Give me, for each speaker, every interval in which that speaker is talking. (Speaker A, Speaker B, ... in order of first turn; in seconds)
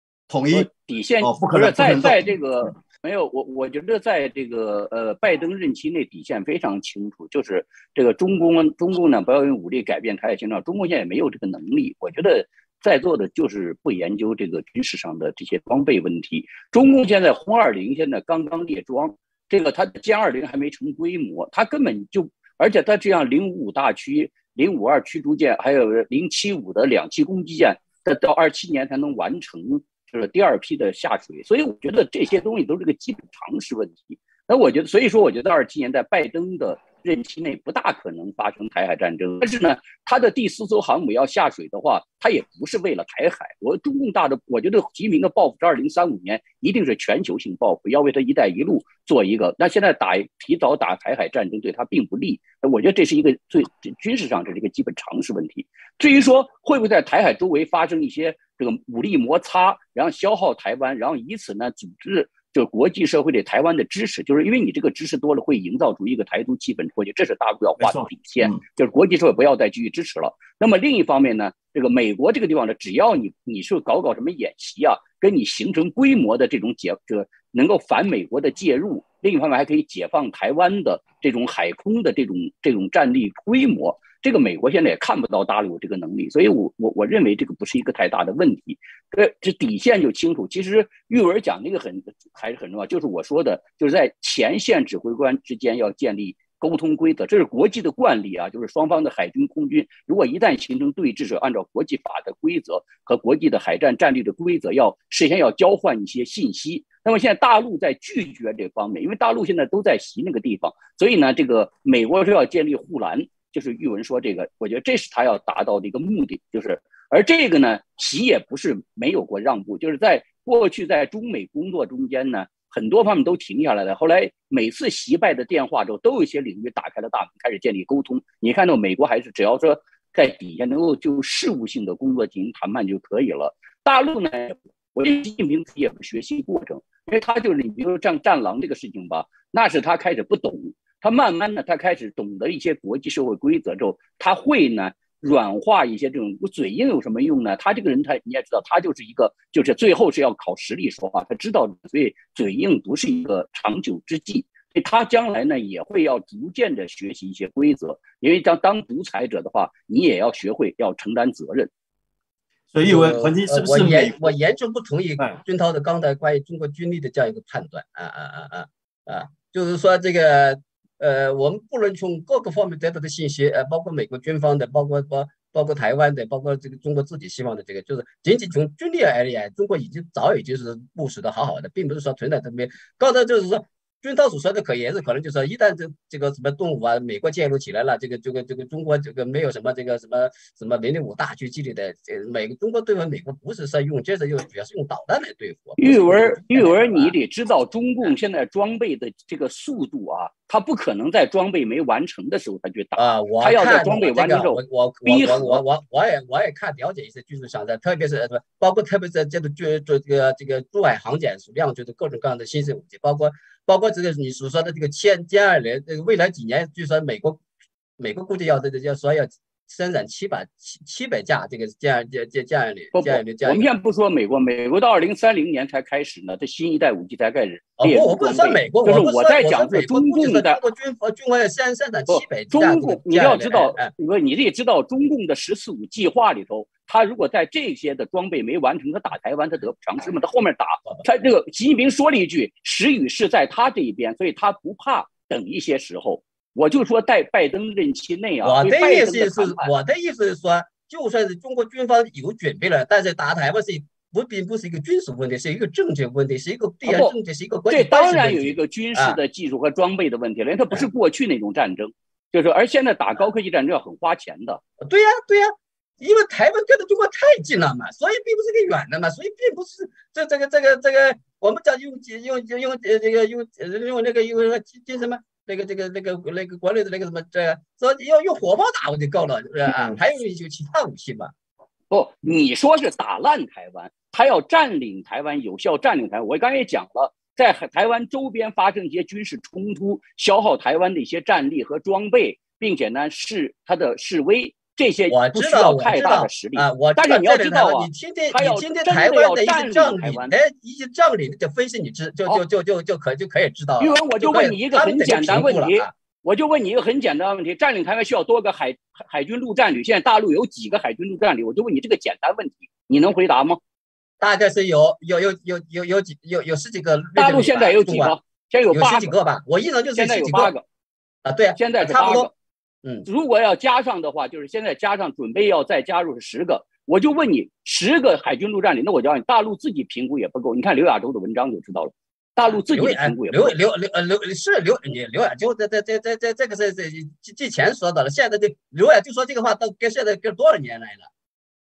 Speaker A: 0.3-2.4, 67.8-68.6, 162.7-164.3
Speaker B: 0.5-161.7, 195.8-205.6, 222.9-230.6, 232.1-249.7, 256.8-257.2, 257.7-264.6, 281.9-300.3, 303.8-313.6, 317.1-319.1, 319.9-320.6, 321.6-322.3, 323.1-333.5
Speaker C: 162.8-197.1, 202.9-217.4, 218.0-223.8, 227.8-233.9, 248.4-259.2, 264.8-281.3, 295.1-305.9, 314.2-318.1, 318.7-320.5, 321.2-322.3, 332.4-341.1